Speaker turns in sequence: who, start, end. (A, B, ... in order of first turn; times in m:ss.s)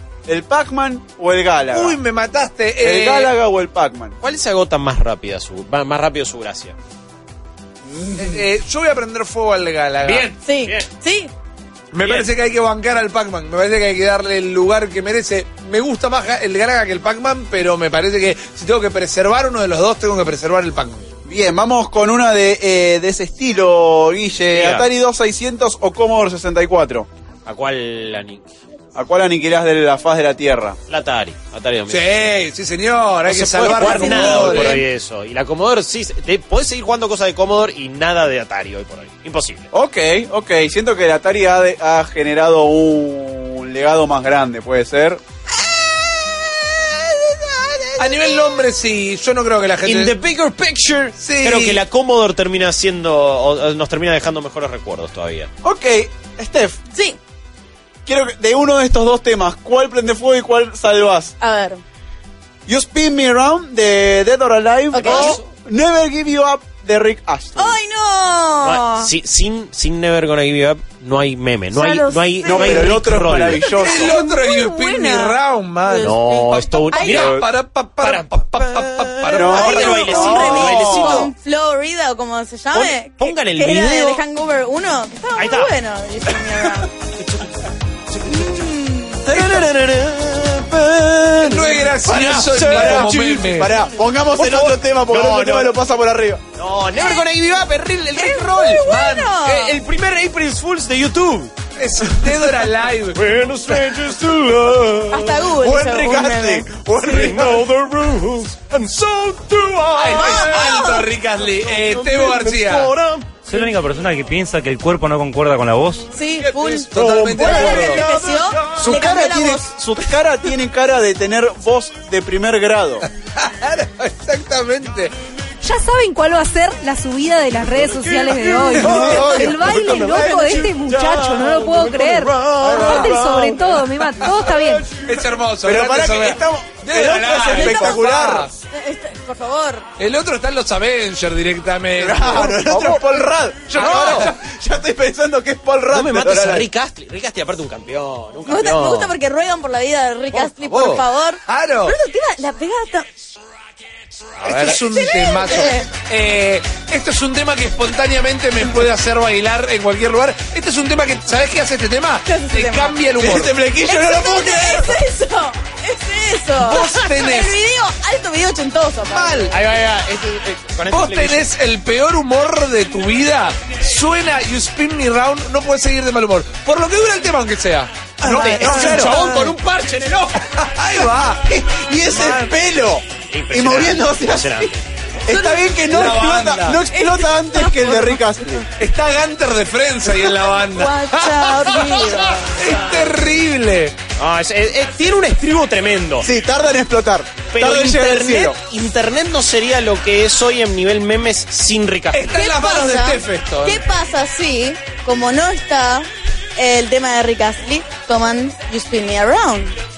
0:00.3-0:02.0 A
0:01.7-0:03.4 B
0:02.8-0:04.2 A
0:04.2-0:06.8 C
0:07.8-0:08.4 A
0:08.2-0:10.4 B
0:10.0-0:10.9 C
0:10.4-0:11.3 D
0:11.9-0:21.0 B
0:12.0-0:12.3 C
0:21.3-0:27.1 A
0:24.5-0:24.9 C
0:27.4-0:28.5 C
0:29.0-0:30.8 A
0:30.9-0:32.2 C
0:31.9-0:34.8 B
0:33.2-0:39.7 C
0:33.7-0:34.8 D
0:39.7-0:45.2 A
0:45.7-0:46.9 C
0:47.5-0:48.2 C
0:48.0-0:50.1 B
0:49.8-0:55.5 C
0:51.2-0:51.8 B
0:55.6-0:56.8 A
0:56.9-0:57.2 D
0:58.1-1:01.3 A
1:01.4-1:01.8 D
1:02.7-1:07.8 A
1:04.9-1:05.4 D
1:05.0-1:05.4 C
1:07.6-1:09.1 D
1:08.6-1:13.8 C
1:11.7-1:13.0 D
1:12.4-1:14.2 A
1:13.6-1:17.4 D
1:13.8-1:20.8 B
1:16.0-1:17.4 C
1:17.2-1:17.4 A
1:18.0-1:21.3 C
1:19.3-1:21.2 A
1:19.5-1:26.9 D
1:22.7-1:24.2 C
1:25.4-1:25.8 C
1:27.2-1:28.7 C
1:28.3-1:29.3 D
1:29.2-1:33.6 C
1:29.3-1:29.7 A
1:31.4-1:33.7 B
1:32.6-1:36.4 A
1:34.3-1:35.8 C
1:36.6-1:41.5 C
1:37.0-1:37.3 D
1:38.2-1:39.8 D
1:38.9-1:39.4 B
1:41.8-1:43.2 B
1:43.1-1:45.5 C
1:45.1-1:47.4 D
1:45.5-1:47.7 A
1:47.0-1:50.9 C
1:50.0-1:52.9 B
1:50.1-1:51.1 D
1:51.5-1:53.7 C
1:53.4-1:56.1 E
1:56.1-1:59.7 D
1:56.4-1:58.0 B
1:57.0-1:58.0 A
1:57.4-1:58.7 C
1:58.7-2:03.1 A
2:03.4-2:05.1 B
2:05.6-2:15.0 F
2:08.4-2:11.9 A
2:08.8-2:12.9 C
2:08.9-2:09.6 D
2:12.5-2:13.7 A
2:12.6-2:13.1 D
2:14.9-2:18.5 B
2:15.6-2:18.5 A
2:17.4-2:19.9 D
2:20.0-2:23.0 B
2:22.0-2:26.7 A
2:23.7-2:24.3 B
2:23.8-2:24.3 C
2:25.9-2:29.2 C
2:28.4-2:33.1 D
2:30.3-2:32.0 B
2:34.4-2:43.6 B
2:34.4-2:35.9 D
2:42.3-2:43.0 D
2:43.2-2:45.0 A
2:43.8-2:49.5 D
2:46.6-2:47.6 B
2:49.1-2:49.6 B
2:49.5-2:51.5 C
2:50.9-2:59.6 B
2:58.2-2:59.4 A
2:58.2-3:00.4 C
3:00.4-3:02.5 B
3:01.4-3:04.7 A
3:03.3-3:04.8 C
3:05.2-3:08.7 A
3:05.8-3:06.8 B
3:06.9-3:08.1 D
3:08.8-3:14.0 B
3:10.7-3:12.8 D
3:14.2-3:16.3 C
3:16.2-3:18.6 A
3:17.5-3:22.3 C
3:22.1-3:23.8 B
3:22.3-3:29.8 D